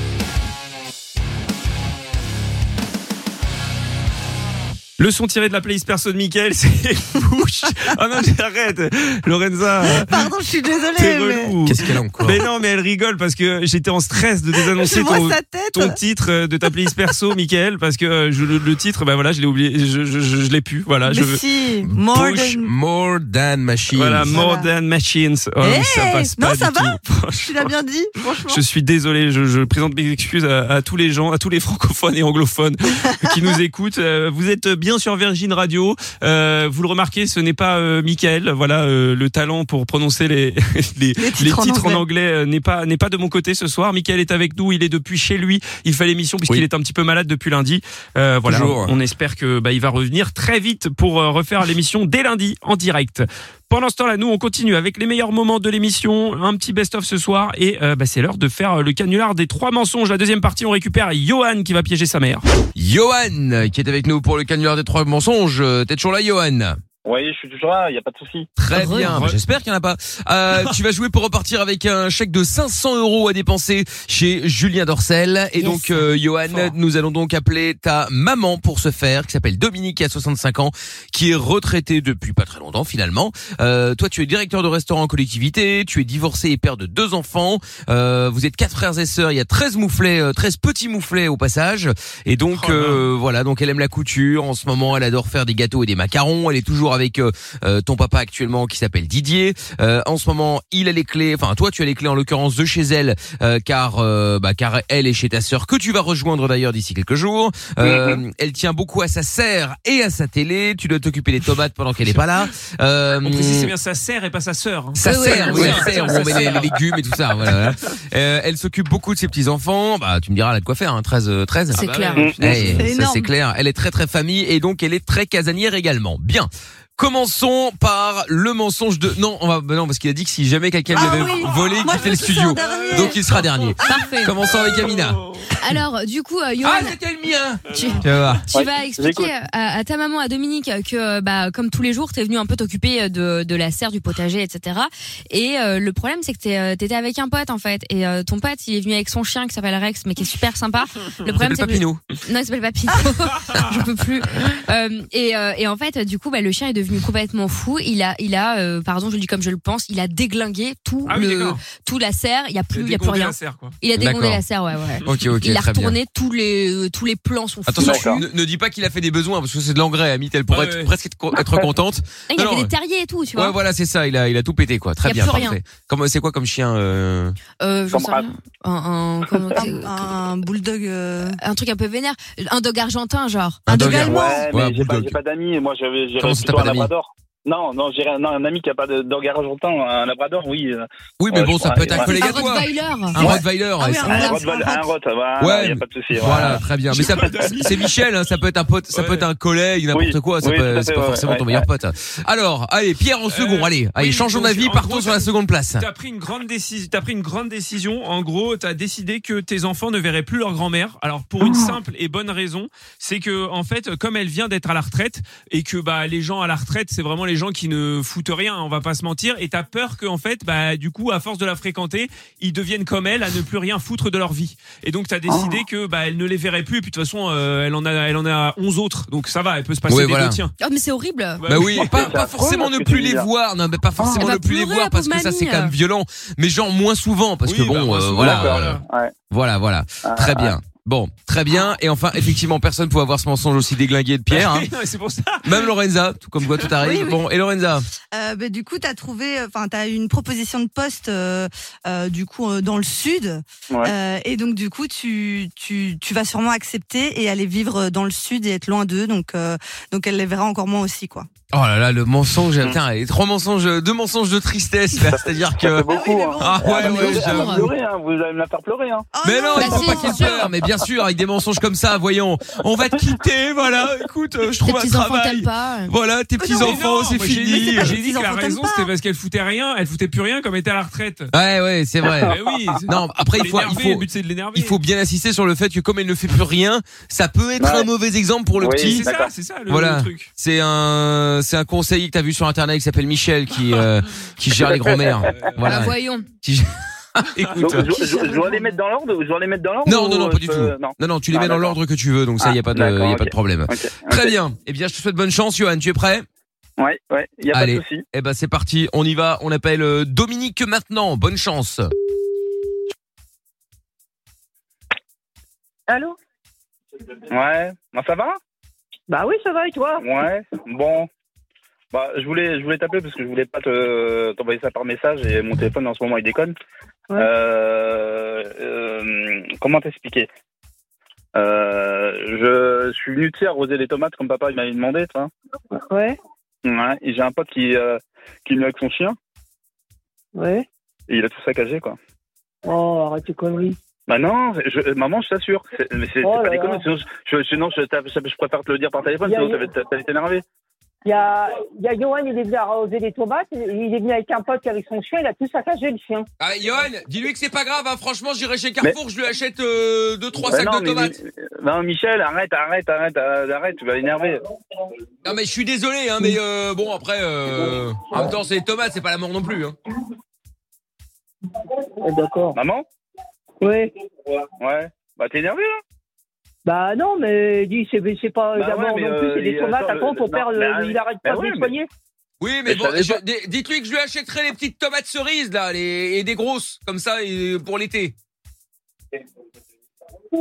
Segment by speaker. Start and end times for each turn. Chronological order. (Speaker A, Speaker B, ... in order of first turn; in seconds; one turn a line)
Speaker A: 5.0-10.3
Speaker B: 9.8-11.7
Speaker A: 10.9-21.4
Speaker C: 11.7-12.4
Speaker B: 14.6-16.0
Speaker B: 21.1-22.7
Speaker C: 21.9-24.4
Speaker A: 23.9-27.7
Speaker B: 24.2-24.7
Speaker B: 25.6-28.6
Speaker A: 28.5-62.5
Speaker B: 33.1-33.4
Speaker B: 41.2-42.0
Speaker C: 48.5-48.9
Speaker D: 62.8-66.8
Speaker E: 67.0-68.5
Speaker D: 68.6-113.7
Speaker F: 68.7-69.2
Speaker A: 68.7-69.4
Speaker F: 75.6-76.0
Speaker A: 76.5-76.7
Speaker A: 92.5-93.1
Speaker E: 107.8-108.2
Speaker A: 112.0-112.4
Speaker A: 113.2-116.8
Speaker D: 115.0-135.2
Speaker F: 115.0-116.5
Speaker F: 121.7-122.3
Speaker A: 121.8-122.8
Speaker B: 122.7-123.3
Speaker B: 130.9-134.1
Speaker A: 131.9-133.7
Speaker F: 133.8-134.3
Speaker A: 134.6-135.3
Speaker F: 135.5-137.0
Speaker D: 136.6-138.4
Speaker F: 137.7-168.2
Speaker A: 137.7-138.0
Speaker E: 138.5-139.3
Speaker D: 151.2-152.0
Speaker A: 161.1-161.6
Speaker A: 162.7-163.8
Speaker D: 163.9-164.4
Speaker D: 165.0-166.0
Speaker D: 167.7-172.7
Speaker E: 167.8-168.2
Speaker A: 170.5-170.9
Speaker F: 172.3-173.6
Speaker D: 173.3-177.4
Speaker F: 175.0-175.6
Speaker F: 177.6-180.1
Speaker E: 177.9-178.2
Speaker B: 179.5-181.4
Speaker F: 181.4-183.9
Speaker B: 183.7-184.4
Speaker D: 183.7-185.2
Speaker E: 183.8-192.1
Speaker D: 186.2-186.9
Speaker D: 191.2-194.3
Speaker F: 192.0-193.2
Speaker B: 192.1-192.6
Speaker B: 193.8-194.8
Speaker E: 194.0-196.6
Speaker D: 195.4-205.8
Speaker A: 196.9-197.9
Speaker A: 198.9-199.3
Speaker E: 199.9-201.6
Speaker A: 203.3-230.5
Speaker E: 225.3-225.6
Speaker D: 229.9-230.4
Speaker F: 230.6-231.7
Speaker A: 231.4-232.1
Speaker D: 231.5-238.8
Speaker E: 231.9-233.3
Speaker F: 234.0-235.7
Speaker A: 237.4-238.8
Speaker E: 238.2-239.1
Speaker D: 239.3-244.7
Speaker E: 240.0-240.6
Speaker A: 244.3-245.7
Speaker D: 245.4-247.8
Speaker B: 246.8-247.2
Speaker B: 248.1-261.3
Speaker D: 261.5-265.9
Speaker E: 265.0-269.1
Speaker B: 265.8-267.5
Speaker D: 266.4-267.7
Speaker F: 267.2-267.6
Speaker B: 269.1-270.3
Speaker D: 269.2-277.9
Speaker F: 269.5-270.5
Speaker F: 274.6-275.9
Speaker B: 276.4-278.9
Speaker A: 276.6-281.3
Speaker D: 281.3-282.3
Speaker A: 282.2-284.8
Speaker D: 282.8-289.0
Speaker E: 287.6-287.9
Speaker E: 288.6-289.3
Speaker A: 288.8-290.3
Speaker D: 289.7-297.9
Speaker E: 294.5-295.2
Speaker A: 295.3-295.6
Speaker F: 295.6-296.3
Speaker E: 297.6-301.8
Speaker F: 298.0-298.7
Speaker D: 299.8-306.3
Speaker E: 302.4-304.3
Speaker E: 306.8-308.0
Speaker D: 307.5-311.9
Speaker G: 315.9-316.2
Speaker E: 317.3-318.4
Speaker G: 319.1-320.0
Speaker E: 320.0-321.1
Speaker E: 321.9-326.5
Speaker E: 327.1-330.3
Speaker E: 331.3-335.3
Speaker G: 335.9-336.2
Speaker E: 336.6-339.2
Speaker G: 340.3-340.6
Speaker E: 341.1-342.0
Speaker G: 342.6-343.8
Speaker E: 344.1-350.4
Speaker G: 346.2-346.8
Speaker G: 349.2-349.6
Speaker G: 351.0-356.3
Speaker D: 356.4-361.1
Speaker E: 360.5-364.4
Speaker D: 365.2-369.8
Speaker G: 372.0-372.6
Speaker E: 372.6-372.8
Speaker G: 373.6-373.9
Speaker E: 374.6-375.8
Speaker G: 376.6-381.9
Speaker E: 378.5-381.7
Speaker D: 382.4-388.1
Speaker E: 382.7-383.2